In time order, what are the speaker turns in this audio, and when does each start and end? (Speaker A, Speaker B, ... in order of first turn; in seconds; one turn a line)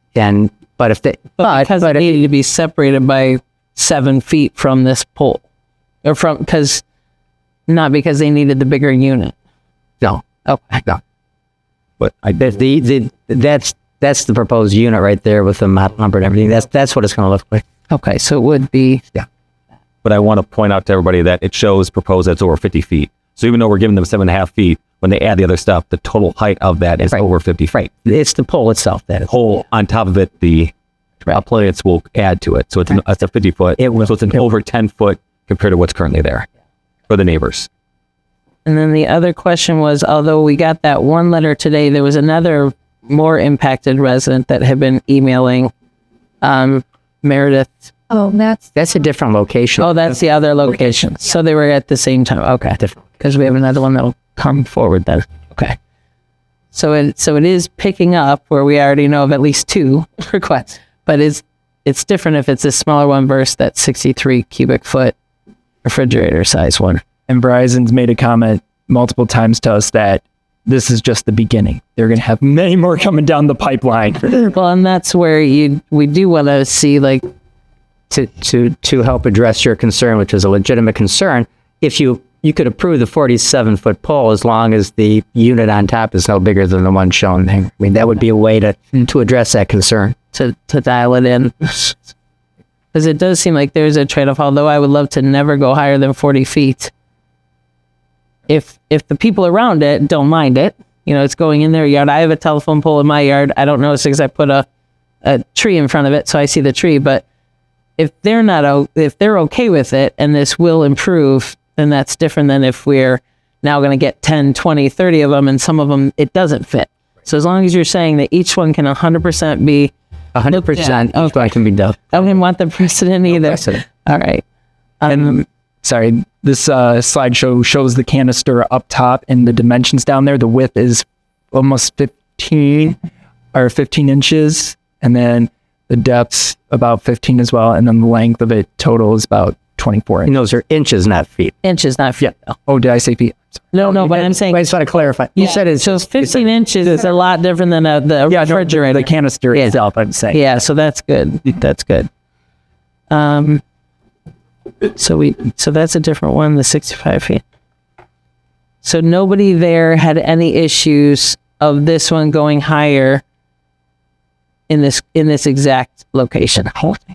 Speaker A: 0.1-2.2
Speaker B: 1.4-5.4
Speaker B: 6.0-6.8
Speaker B: 7.7-9.3
Speaker A: 10.0-10.3
Speaker B: 10.4-10.8
Speaker C: 12.0-12.4
Speaker A: 12.4-17.6
Speaker B: 17.9-19.0
Speaker C: 20.0-27.8
Speaker A: 27.1-29.3
Speaker C: 29.3-30.7
Speaker C: 31.2-36.5
Speaker A: 33.8-34.5
Speaker C: 37.1-37.7
Speaker B: 38.6-45.7
Speaker B: 46.4-47.9
Speaker A: 48.7-50.0
Speaker B: 49.8-55.8
Speaker B: 56.7-65.2
Speaker B: 65.8-67.0
Speaker D: 67.3-74.5
Speaker B: 74.4-77.3
Speaker A: 78.1-90.2
Speaker B: 90.3-92.1
Speaker B: 92.9-96.9
Speaker B: 98.5-104.7
Speaker B: 105.2-107.2
Speaker B: 108.0-119.9
Speaker A: 120.3-122.2
Speaker B: 120.5-121.5
Speaker B: 122.1-124.5
Speaker A: 123.4-123.8
Speaker B: 125.0-125.4
Speaker D: 125.1-133.0
Speaker D: 133.5-140.3
Speaker A: 140.3-141.6
Speaker B: 141.6-142.6
Speaker D: 142.2-143.8
Speaker B: 143.7-144.6
Speaker A: 143.9-146.4
Speaker B: 145.3-149.1
Speaker D: 148.3-150.4
Speaker B: 150.3-152.1
Speaker B: 153.1-153.6
Speaker B: 154.9-157.4
Speaker B: 158.8-163.2
Speaker B: 164.7-167.1